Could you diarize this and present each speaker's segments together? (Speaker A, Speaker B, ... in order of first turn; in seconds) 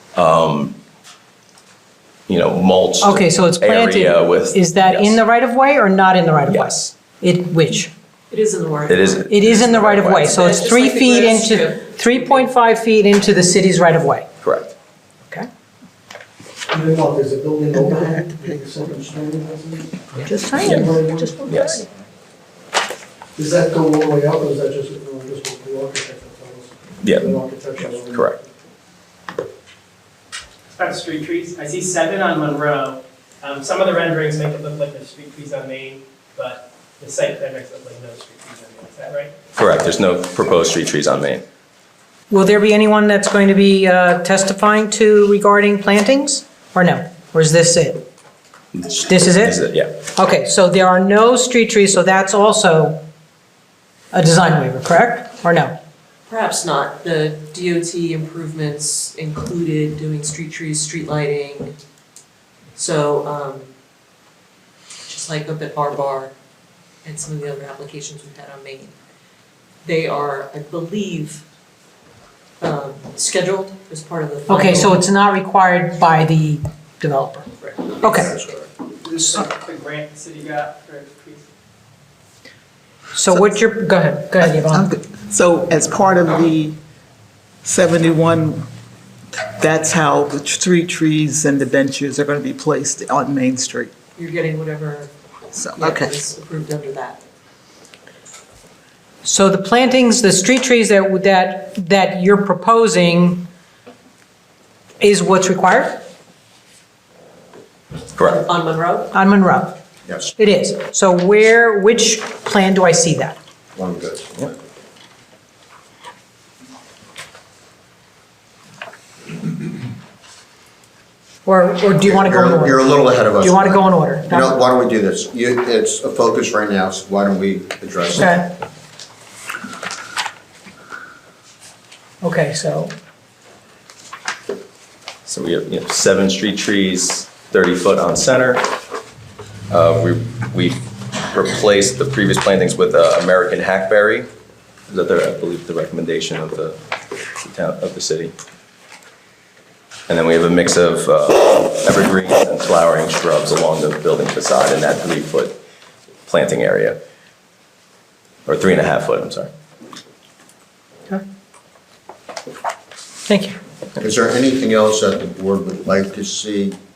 Speaker A: 0.1-0.8, 2.3-5.2, 6.5-6.8, 8.9-10.4, 14.4-14.7, 21.5-21.8, 27.0-27.4, 28.0-28.4, 39.5-41.4, 48.8-50.0, 108.2-108.4, 135.2-138.7, 139.7-144.3, 144.9-146.8, 147.4-148.3, 150.1-155.6, 156.2-157.0, 158.4-159.5
Speaker B: 3.0-7.9, 9.3-14.3, 20.5-20.8, 42.3-48.0, 49.0-53.0, 54.1-55.8, 74.5-77.5, 78.0-78.3, 83.1-84.8, 99.2-103.5, 105.0-106.0, 109.1-109.8, 110.3-113.4, 121.4-124.5, 128.1-128.5, 132.2-132.9, 163.3-163.6
Speaker C: 8.3-9.2, 10.0-12.5, 56.3-61.7, 62.7-63.7, 65.1-66.3, 67.0-68.9, 69.8-71.4, 72.6-75.0, 77.6-78.0, 94.2-95.1, 95.7-97.2, 108.2-109.1
Speaker D: 16.7-19.9, 20.6-21.6, 23.4-28.5
Speaker E: 17.7-18.6, 20.2-21.5, 83.3-83.5, 84.3-86.8, 87.6-88.7, 89.3-93.9, 95.5-96.1
Speaker F: 30.7-39.3, 79.0-81.5
Speaker G: 78.0-78.7, 110.0-110.3, 113.7-114.5, 122.0-128.4, 164.0-166.8